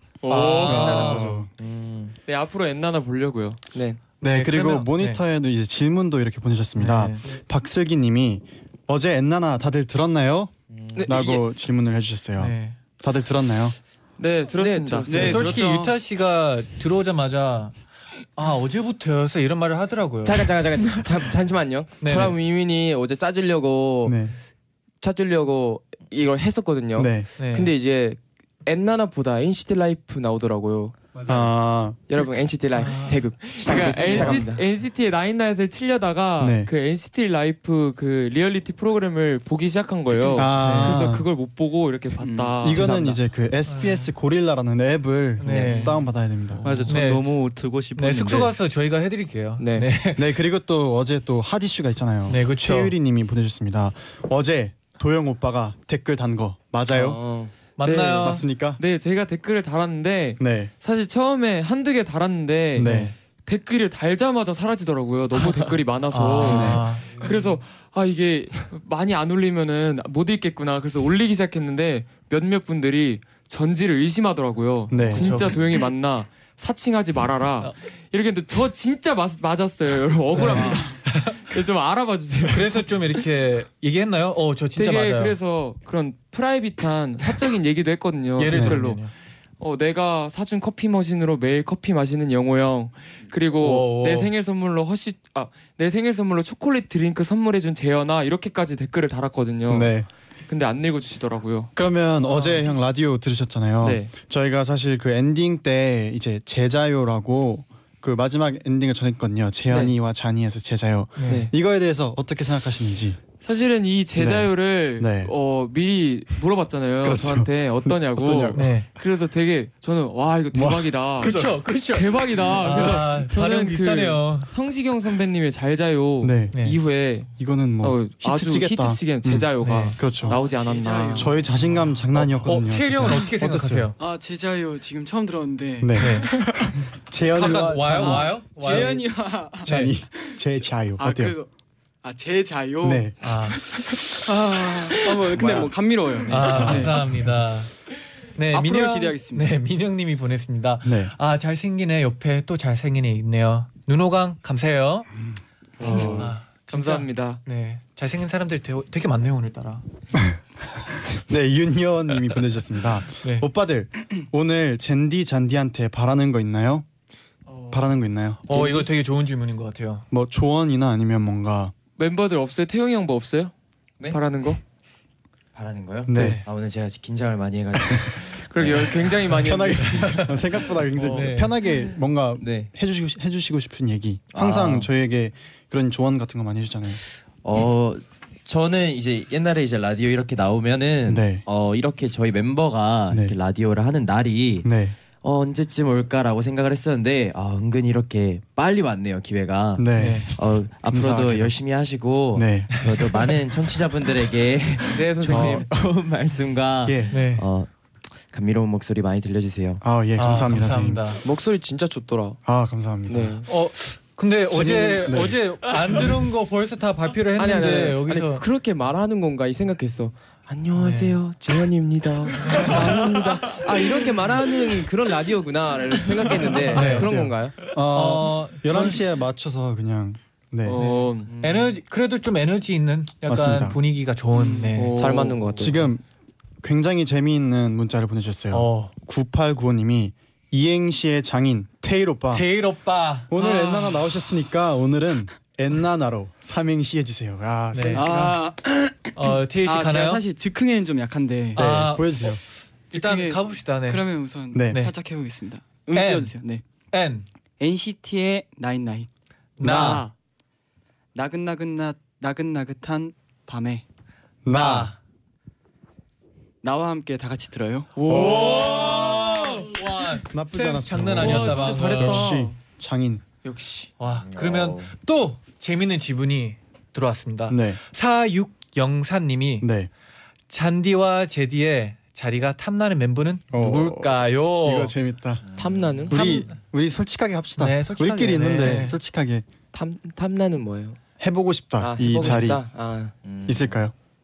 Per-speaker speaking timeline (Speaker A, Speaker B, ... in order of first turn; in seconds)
Speaker A: 0.2-1.1, 2.3-3.6, 14.2-15.5, 33.5-43.2, 45.5-46.0, 46.6-46.9, 57.8-83.2, 84.8-89.1, 89.6-100.0, 100.5-101.7, 103.8-104.1, 109.7-109.9, 111.3-111.5, 113.4-131.3, 155.8-157.4, 172.0-173.5, 174.1-174.6, 178.4-181.3, 230.6-231.3, 234.7-235.4, 259.7-260.0, 267.9-269.2, 271.2-272.5
Speaker B: 0.3-1.4, 4.2-5.2, 6.8-7.3, 12.4-12.8, 15.1-17.8, 18.4-20.5, 22.0-22.4, 27.4-27.7, 32.8-33.2, 40.6-41.1, 43.7-44.1, 45.4-46.0, 46.9-47.3, 47.9-50.3, 52.3-52.9, 57.8-58.4, 62.8-63.1, 65.4-67.4, 75.0-75.6, 80.3-81.3, 82.5-85.3, 88.4-89.1, 93.6-94.3, 111.2-111.5, 118.5-118.9, 121.2-124.5, 126.5-126.8, 129.6-130.0, 132.1-133.9, 136.0-136.5, 137.3-139.1, 139.6-139.9, 143.2-143.6, 146.3-147.7, 148.3-155.1, 155.8-159.8, 163.2-163.5, 168.5-170.0, 176.1-176.4, 179.8-180.4, 181.0-181.6, 199.9-200.3, 207.1-207.5, 210.2-211.2, 213.4-218.4, 220.7-221.2, 226.7-227.1, 227.7-229.0, 230.7-235.0, 238.5-238.9, 242.3-244.2, 247.7-248.3, 249.1-250.2, 251.5-254.0, 255.9-256.3, 256.9-257.2, 259.6-260.1, 264.5-265.0, 268.1-272.4, 274.0-279.7, 280.5-284.9, 286.1-286.5, 287.6-289.0
Speaker C: 0.6-1.5, 4.2-13.8, 24.0-24.3, 26.9-27.3, 31.2-32.0, 33.6-34.4, 36.4-36.7, 40.3-41.3, 42.6-46.7, 50.1-57.2, 58.2-58.8, 60.4-60.7, 62.7-63.1, 66.4-66.9, 74.9-75.4, 80.4-80.8, 88.5-88.8, 99.7-100.1, 101.8-113.2, 114.2-115.3, 117.0-118.7, 120.5-121.6, 122.6-123.1, 126.2-126.5, 127.4-130.4, 131.1-133.9, 135.8-136.5, 137.1-139.0, 139.6-141.3, 142.8-143.2, 146.5-146.9, 150.8-151.1, 155.8-156.3, 160.1-160.4, 161.0-166.8, 167.7-168.8, 170.1-171.7, 176.1-176.4, 179.2-187.0, 191.1-191.4, 194.6-195.0, 199.8-201.5, 202.3-202.9, 205.2-205.8, 206.8-207.3, 209.8-211.2, 212.4-213.4, 214.5-215.7, 226.7-230.8, 233.2-233.8, 235.6-236.0, 236.6-242.5, 243.3-248.3, 251.6-252.4, 254.5-254.8, 264.4-264.9, 268.1-268.5, 270.3-273.2, 277.5-277.8, 279.6-279.9, 283.5-285.4, 286.1-289.5, 291.2-292.6, 293.4-293.9
Speaker D: 0.6-1.4, 3.7-4.0, 10.9-11.4, 14.6-15.4, 20.2-24.2, 25.0-30.9, 32.1-34.6, 45.5-45.9, 49.6-49.9, 56.9-57.5, 204.9-205.7, 211.2-212.4, 213.1-213.5, 217.3-227.6, 234.9-235.9, 285.6-286.3, 289.7-291.0, 291.8-293.1
Speaker E: 1.6-2.1, 10.7-11.1, 175.5-178.9, 182.4-182.7, 184.3-184.9, 187.4-207.7, 208.3-209.8, 274.1-274.9, 285.4-286.1, 293.2-293.8
Speaker F: 15.1-15.9, 42.2-42.7, 130.2-131.5, 134.0-136.7, 137.3-140.3, 141.0-141.5, 142.0-147.2, 148.5-149.6, 234.3-234.8, 247.9-251.8, 252.9-256.6, 257.6-259.1, 259.6-260.1, 261.1-263.8, 266.6-268.1
Speaker G: 46.6-48.5